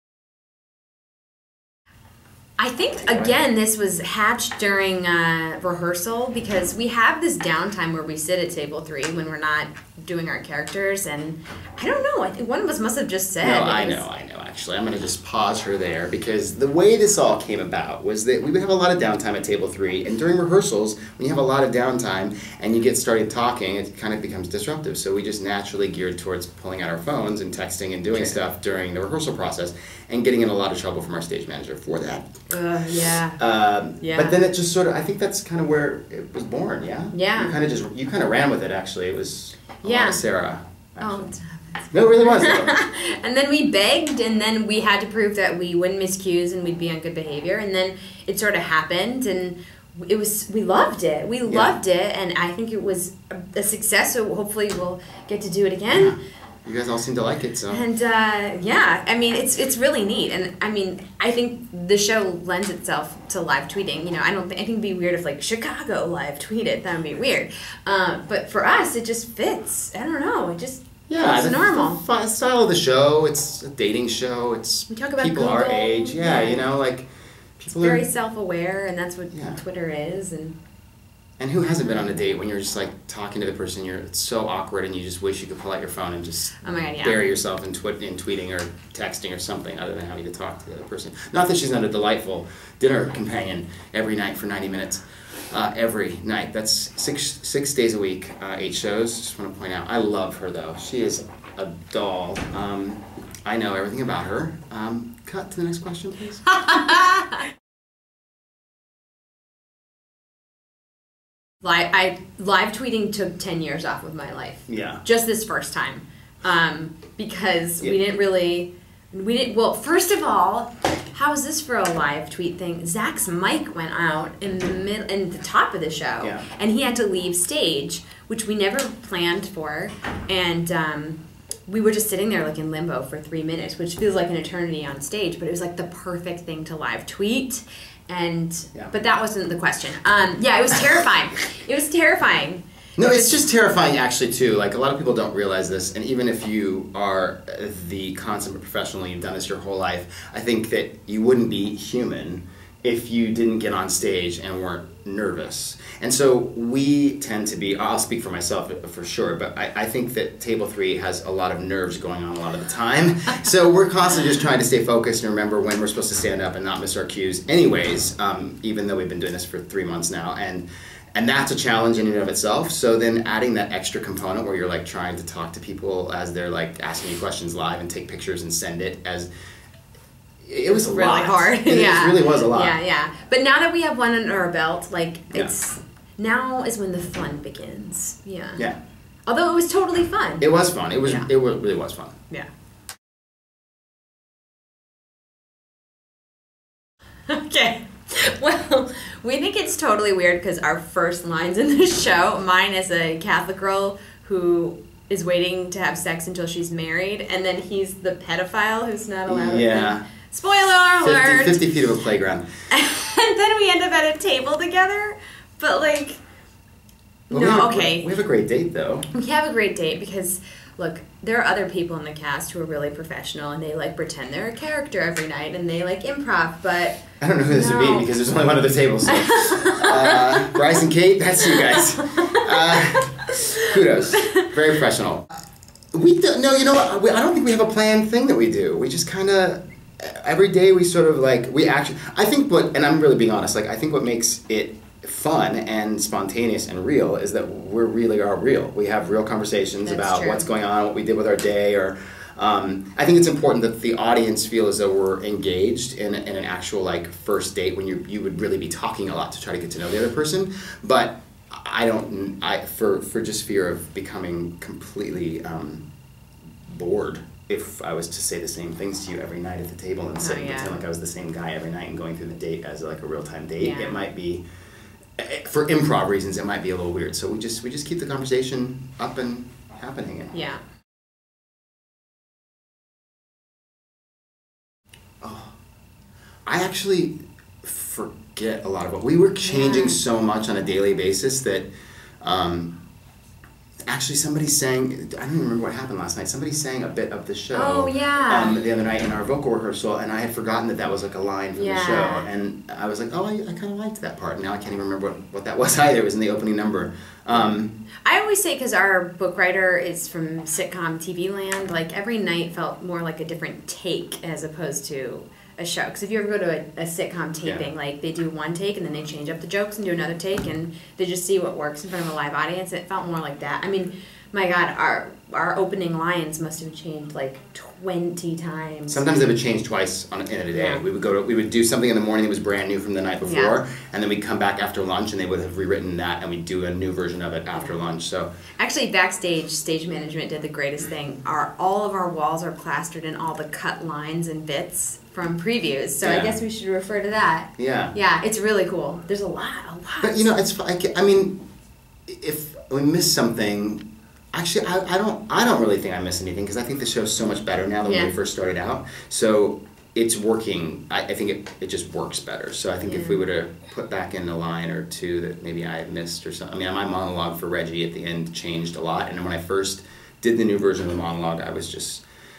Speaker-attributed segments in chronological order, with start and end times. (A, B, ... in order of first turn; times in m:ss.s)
0:02.6-0:14.0 A
0:03.0-0:03.4 B
0:13.4-0:32.3 B
0:32.5-0:33.4 A
0:33.4-0:41.3 B
0:34.0-0:34.4 A
0:37.1-0:37.6 A
0:39.8-0:40.2 A
0:41.0-0:56.1 A
0:41.9-0:42.8 B
0:51.4-0:51.8 B
0:55.9-0:57.8 B
0:57.7-1:12.0 A
1:11.1-1:17.1 B
1:14.9-1:16.6 A
1:17.6-1:18.0 B
1:17.7-1:20.6 A
1:19.3-1:19.6 B
1:21.4-1:46.4 B
1:26.6-1:27.2 A
1:46.5-1:47.4 A
1:51.6-2:23.4 A
1:54.7-1:55.0 B
2:06.2-2:06.5 B
2:23.0-2:59.3 B
3:00.4-3:02.8 B
3:00.8-3:08.6 A
3:09.3-3:10.4 A
3:10.4-3:12.1 B
3:17.3-3:31.6 A
3:29.3-3:30.1 B
3:31.0-3:32.5 B
3:32.7-3:36.2 A
3:37.3-3:38.1 A
3:37.3-3:39.1 B
3:39.1-3:48.1 A
3:47.2-3:55.3 B
3:49.1-3:50.8 A
3:51.4-3:54.5 A
3:55.9-4:25.8 B
4:09.8-4:10.5 A
4:26.7-4:34.4 B
4:30.2-4:30.7 A
4:33.6-4:34.0 A
4:35.2-4:40.4 B
4:40.3-4:40.6 A
4:45.2-4:45.6 B
4:46.5-4:51.7 B
4:49.4-4:50.0 A
4:52.2-4:52.7 B
4:53.9-5:07.8 B
4:57.5-4:58.6 A
5:01.5-5:02.2 A
5:08.0-5:29.0 A
5:28.9-5:38.3 B
5:30.5-5:30.8 A
5:33.2-5:33.6 A
5:38.6-5:50.3 A
5:46.0-5:46.4 B
5:47.6-5:47.9 B
5:50.0-5:51.4 B
5:52.1-6:12.0 B
5:57.8-5:58.1 A
6:02.8-6:03.2 A